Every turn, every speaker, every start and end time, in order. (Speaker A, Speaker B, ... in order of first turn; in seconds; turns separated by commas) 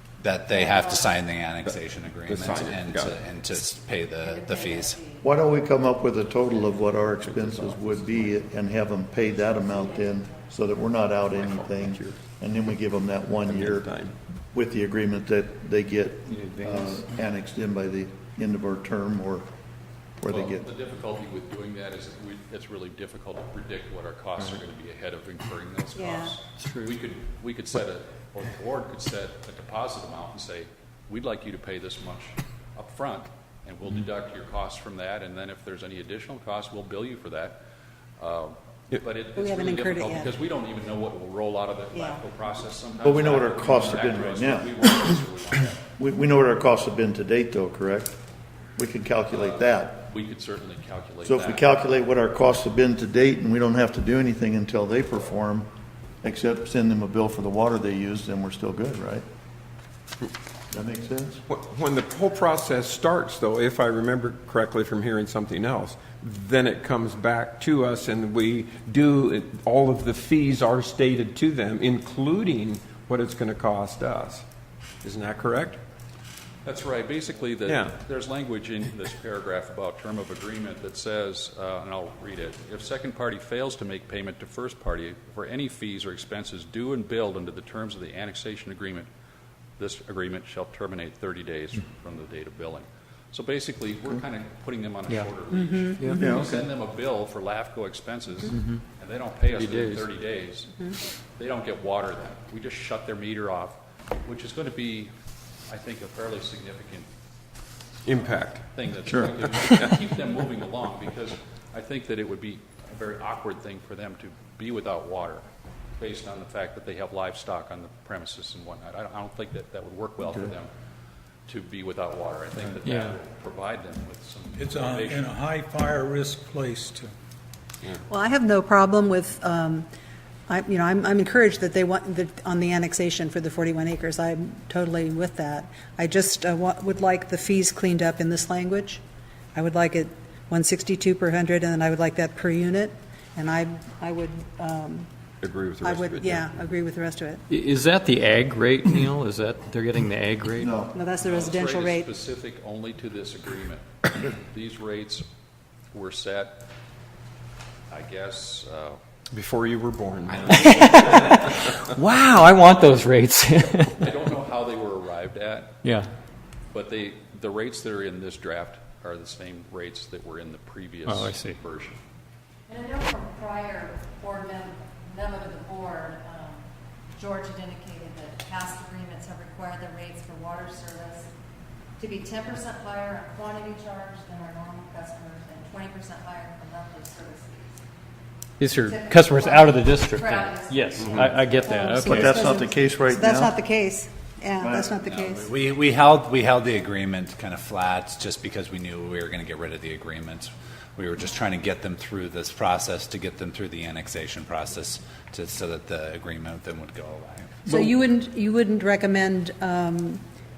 Speaker A: 0.2-5.0, Speaker B: 0.5-1.0, Speaker C: 1.6-3.2, Speaker B: 4.2-5.3, Speaker D: 5.2-13.9, Speaker B: 6.5-6.8, Speaker C: 7.2-8.4, Speaker B: 9.7-10.4, Speaker C: 11.3-12.2, Speaker C: 13.4-14.2, Speaker D: 14.5-19.5, Speaker E: 16.3-17.1, Speaker D: 20.2-20.7, Speaker F: 20.3-37.6, Speaker G: 25.9-26.4, Speaker E: 26.6-27.0, Speaker F: 38.2-45.8, Speaker G: 39.3-40.3, Speaker G: 41.9-42.2, Speaker D: 43.0-44.7, Speaker D: 46.0-48.2, Speaker D: 48.8-50.0, Speaker F: 49.3-51.7, Speaker D: 51.2-55.7, Speaker D: 56.2-59.2, Speaker D: 60.7-61.4, Speaker C: 61.5-74.5, Speaker C: 75.0-75.8, Speaker F: 76.7-89.1, Speaker C: 77.7-78.0, Speaker F: 89.8-105.1, Speaker E: 95.1-95.3, Speaker G: 95.5-96.4, Speaker E: 96.0-96.5, Speaker D: 96.2-96.6, Speaker E: 98.5-98.8, Speaker E: 99.5-100.1, Speaker F: 105.7-107.1, Speaker C: 108.1-108.7, Speaker F: 108.2-115.5, Speaker D: 109.1-109.5, Speaker F: 116.0-120.7, Speaker D: 120.2-120.5, Speaker F: 121.5-125.3, Speaker E: 122.8-123.2, Speaker H: 124.6-127.1, Speaker G: 128.1-129.9, Speaker G: 130.5-139.0, Speaker G: 139.6-145.1, Speaker C: 145.4-146.5, Speaker G: 145.8-147.4, Speaker E: 147.5-150.8, Speaker D: 150.6-150.9, Speaker G: 150.9-152.1, Speaker F: 151.2-155.3, Speaker F: 155.9-156.6, Speaker F: 157.9-159.0, Speaker C: 159.3-161.7, Speaker A: 160.4-161.1, Speaker E: 160.6-164.1, Speaker F: 164.0-165.8, Speaker E: 165.8-166.1, Speaker F: 166.7-172.0, Speaker E: 171.1-171.6, Speaker B: 172.7-176.7, Speaker B: 177.2-181.3, Speaker B: 182.0-187.8, Speaker E: 188.6-192.4, Speaker B: 188.8-191.8, Speaker G: 191.7-195.5, Speaker D: 192.0-193.5, Speaker D: 194.6-194.9, Speaker A: 195.0-207.8, Speaker G: 207.7-210.2